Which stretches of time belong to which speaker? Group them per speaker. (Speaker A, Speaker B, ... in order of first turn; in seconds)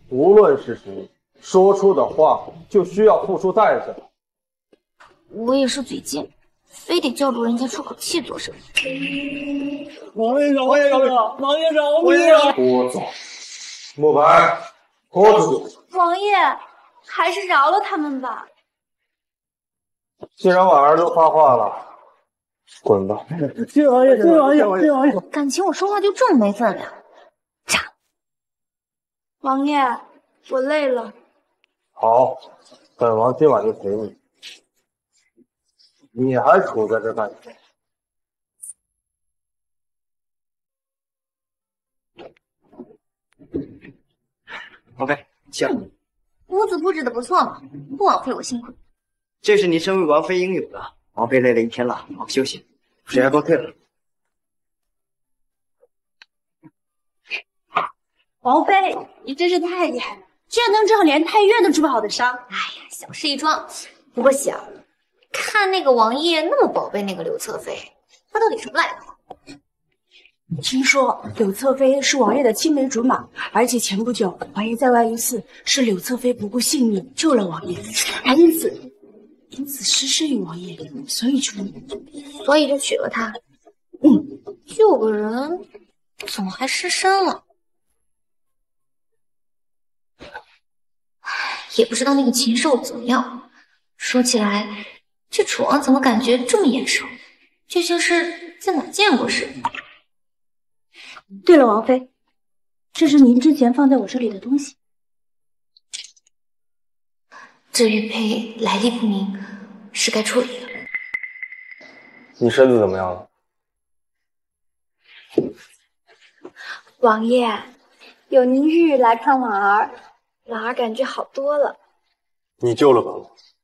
Speaker A: 0.1-4.0, 12.0-13.1, 13.9-14.6, 15.1-15.7, 20.4-21.9, 22.8-23.2, 32.0-32.4, 33.0-34.1, 36.1-37.5, 112.4-113.3, 122.6-123.3
Speaker B: 5.3-8.6, 15.9-16.5, 17.1-18.4, 25.3-26.9, 46.5-48.8, 62.5-64.7, 65.3-69.1, 82.3-83.4, 84.7-85.6, 86.2-87.4, 91.7-93.4, 94.0-97.1, 97.7-99.5, 107.7-110.7
Speaker C: 10.1-12.5, 23.4-25.2
Speaker D: 29.4-31.1, 58.4-62.4, 70.6-78.8, 79.5-81.8, 101.4-102.0, 102.9-104.7, 117.0-117.7, 118.3-119.9, 120.5-121.7
Speaker E: 45.0-45.8, 49.4-53.7